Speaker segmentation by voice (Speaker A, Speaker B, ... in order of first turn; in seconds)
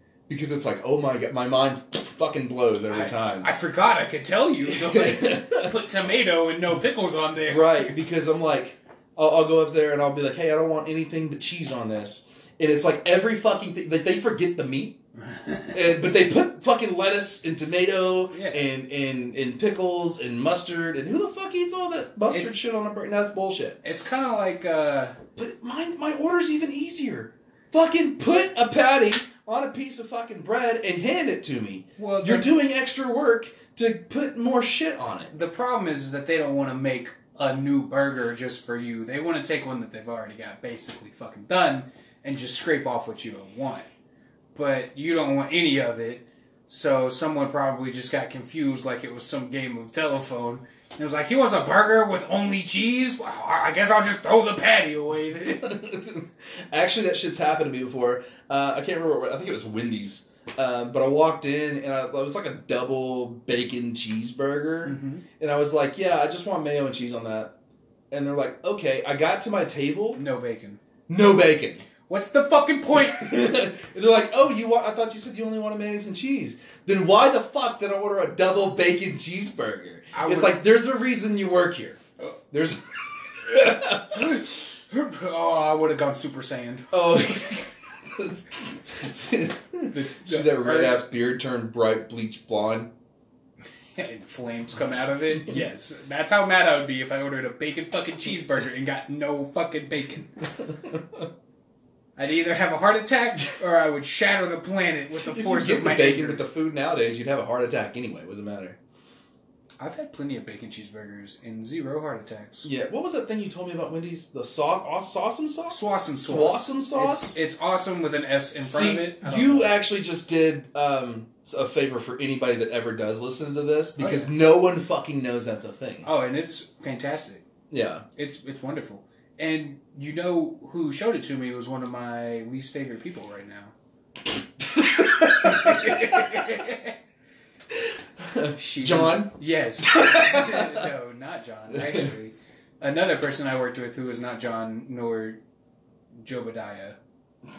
Speaker A: 0.3-3.5, 4.7-5.8, 7.5-15.0, 15.7-23.8, 25.4-35.3, 55.6-67.5, 68.1-70.2, 71.1-71.9, 73.0-82.8, 83.3-84.4, 86.9-92.9, 100.9-101.2, 105.2-108.8, 112.7-117.4, 118.6-126.1, 127.7-128.1, 134.7-136.5, 137.7-140.9, 141.8-142.1
Speaker B: 2.9-8.0, 15.2-15.8, 18.3-18.6, 22.3-22.6, 23.8-25.2, 32.0-32.5, 35.3-43.9, 44.5-55.8, 64.8-65.2, 70.2-70.8, 72.1-73.5, 80.1-80.6, 84.1-87.4, 89.9-91.0, 94.0-100.4, 102.2-106.4, 109.8-112.7, 115.7-119.8, 124.0-124.3, 126.0-127.4, 128.2-133.7, 135.1-136.9, 138.6-145.4, 146.2-147.0